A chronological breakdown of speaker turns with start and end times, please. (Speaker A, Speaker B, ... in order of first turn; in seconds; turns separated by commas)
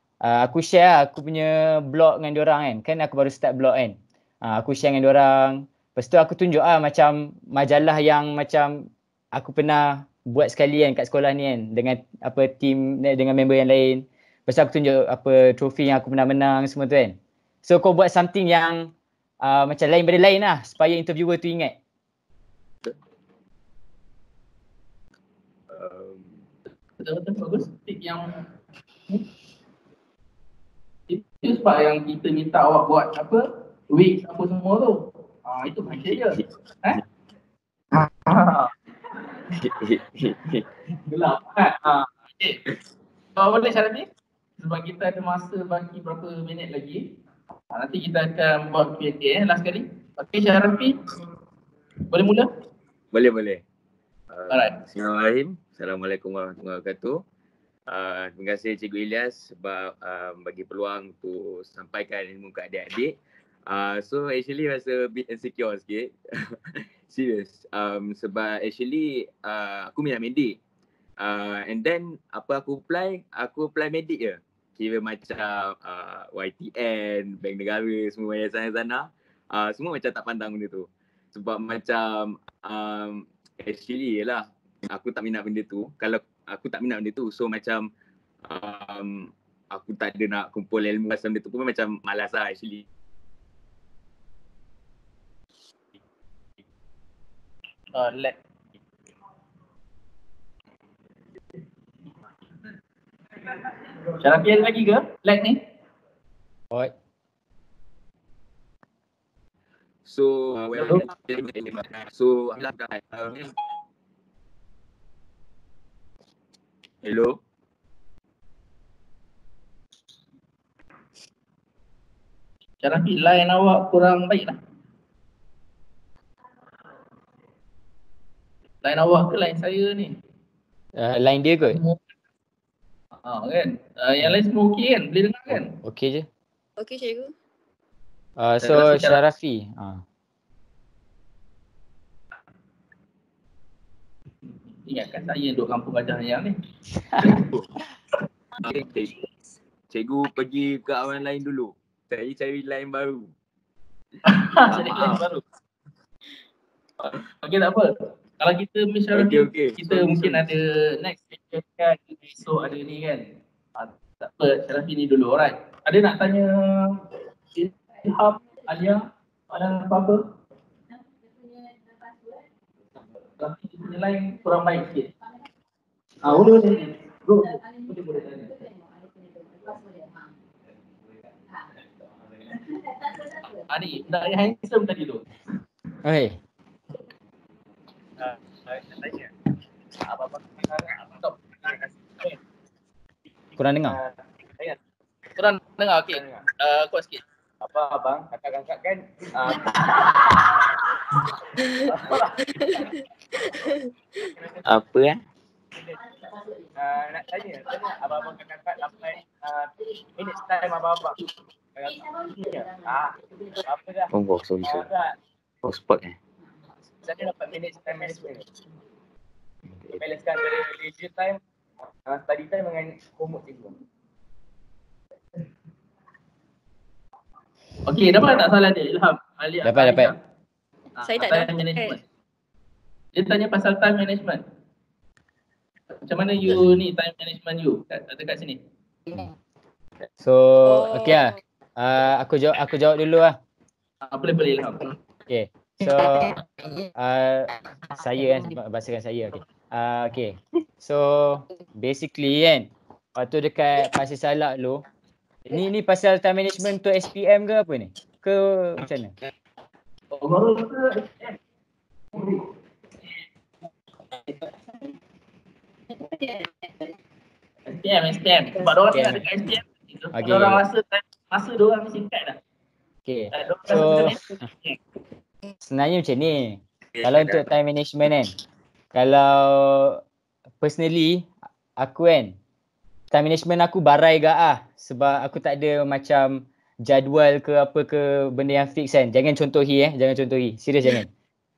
Speaker A: 0.2-21.8, Speaker B: 25.7-26.3, Speaker C: 27.0-28.4, Speaker C: 31.1-37.0, Speaker C: 37.9-38.7, Speaker B: 39.5-40.7, Speaker C: 41.0-42.6, Speaker C: 43.3-47.1, Speaker C: 47.7-51.0, Speaker C: 52.1-52.5, Speaker B: 53.1-53.6, Speaker B: 54.3-57.2, Speaker C: 54.5-54.8, Speaker B: 57.9-66.6, Speaker B: 67.1-70.6, Speaker B: 71.2-87.9, Speaker B: 88.5-92.8, Speaker C: 97.9-98.3, Speaker C: 104.2-105.6, Speaker B: 110.0-113.5, Speaker C: 110.7-111.1, Speaker B: 117.0-117.4, Speaker C: 122.8-124.6, Speaker C: 128.8-130.2, Speaker A: 130.9-131.8, Speaker C: 131.7-132.0, Speaker C: 133.2-135.8, Speaker A: 135.7-136.3, Speaker D: 136.8-137.3, Speaker A: 138.4-140.0, Speaker C: 138.6-139.2, Speaker C: 144.8-146.6, Speaker C: 147.2-147.4, Speaker B: 147.2-147.6, Speaker B: 148.6-149.2, Speaker B: 149.9-153.3, Speaker C: 154.2-155.4, Speaker B: 154.7-155.2, Speaker C: 157.0-170.3, Speaker B: 159.1-160.5, Speaker C: 173.4-175.1, Speaker C: 176.2-178.7, Speaker C: 183.6-185.2, Speaker A: 186.0-186.4, Speaker C: 190.1-192.3, Speaker A: 193.6-194.0, Speaker C: 195.3-197.2, Speaker E: 198.5-198.9, Speaker B: 204.6-205.2, Speaker E: 207.1-209.1, Speaker E: 210.2-210.8, Speaker B: 214.1-214.9, Speaker B: 215.6-216.2, Speaker C: 217.3-218.1, Speaker E: 220.3-221.2, Speaker E: 222.1-223.4, Speaker C: 227.8-230.2, Speaker A: 229.6-230.1, Speaker C: 231.0-232.0, Speaker D: 231.1-232.0, Speaker C: 233.1-234.4, Speaker C: 236.0-238.6, Speaker A: 240.2-243.4, Speaker D: 240.7-241.2, Speaker C: 244.0-245.0, Speaker A: 245.3-246.4, Speaker A: 246.9-254.8, Speaker A: 255.4-259.1, Speaker C: 260.1-261.4, Speaker C: 262.1-262.5, Speaker C: 267.6-272.4, Speaker A: 268.9-269.2, Speaker A: 270.1-270.6, Speaker A: 273.1-274.1, Speaker C: 273.3-274.8, Speaker A: 275.6-278.3, Speaker B: 277.0-277.4, Speaker A: 278.9-280.0, Speaker A: 280.6-282.3, Speaker A: 283.1-291.1